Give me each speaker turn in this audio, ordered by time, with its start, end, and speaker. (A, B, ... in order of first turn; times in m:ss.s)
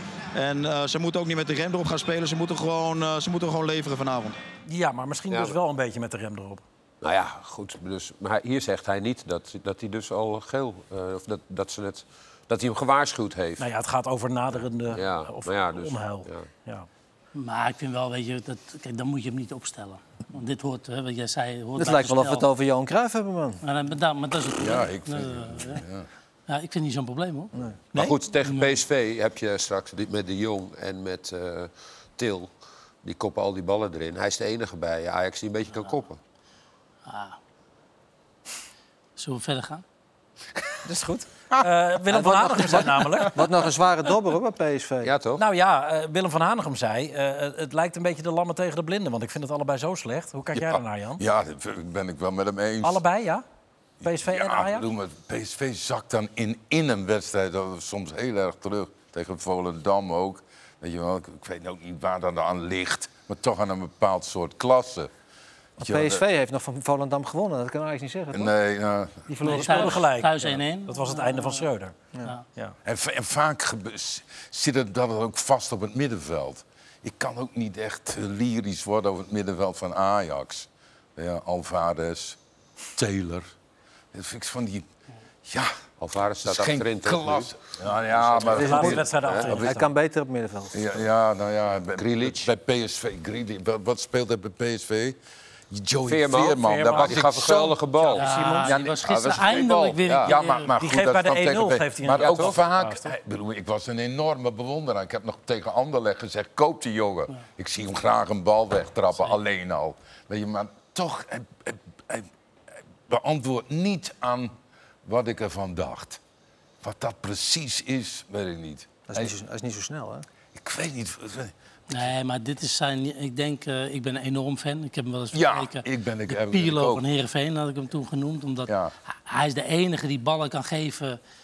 0:00.3-0:04.4 A
0:04.6-0:06.6 B
0:05.3-0:05.6 C
0:07.0-0:13.6 C
0:13.6-0:16.9 B
0:14.9-0:16.5 C
0:17.3-0:22.5 D
0:21.8-0:23.6 E
0:23.6-0:25.8 D
0:24.6-0:26.1 F
0:26.5-0:27.6 D
0:27.9-0:32.5 C
0:28.4-0:28.8 D
0:33.0-0:36.2 C
0:37.0-0:37.4 D
0:39.2-0:39.8 D
0:40.8-0:43.5 B
0:42.1-0:45.1 E
0:45.0-0:45.4 C
0:45.4-0:51.2 B
0:50.5-0:53.0 F
0:52.8-0:53.4 B
0:54.0-1:05.1 F
0:54.0-0:54.9 B
1:05.8-1:06.2 F
1:05.8-1:08.5 E
1:08.3-1:09.2 F
1:09.3-1:10.1 E
1:09.4-1:12.0 B
1:09.4-1:11.6 D
1:12.8-1:22.4 F
1:22.9-1:23.5 F
1:24.1-1:24.9 F
1:25.4-1:25.7 F
1:26.0-1:27.6 C
1:26.4-1:29.7 F
1:28.1-1:29.5 C
1:28.5-1:30.8 E
1:28.5-1:29.9 B
1:30.7-1:35.2 F
1:32.0-1:32.5 C
1:35.7-1:37.8 F
1:36.1-1:38.3 C
1:36.6-1:37.2 B
1:38.0-1:38.7 B
1:38.2-1:40.7 D
1:38.6-1:52.3 F
1:39.0-1:40.3 C
1:40.8-1:43.1 B
1:42.2-1:42.6 C
1:53.1-1:56.2 F
1:56.8-1:59.3 F
1:59.1-2:00.3 E
2:00.5-2:02.1 F
2:01.9-2:08.7 D
2:05.3-2:07.0 F
2:08.7-2:08.9 F
2:09.3-2:11.2 D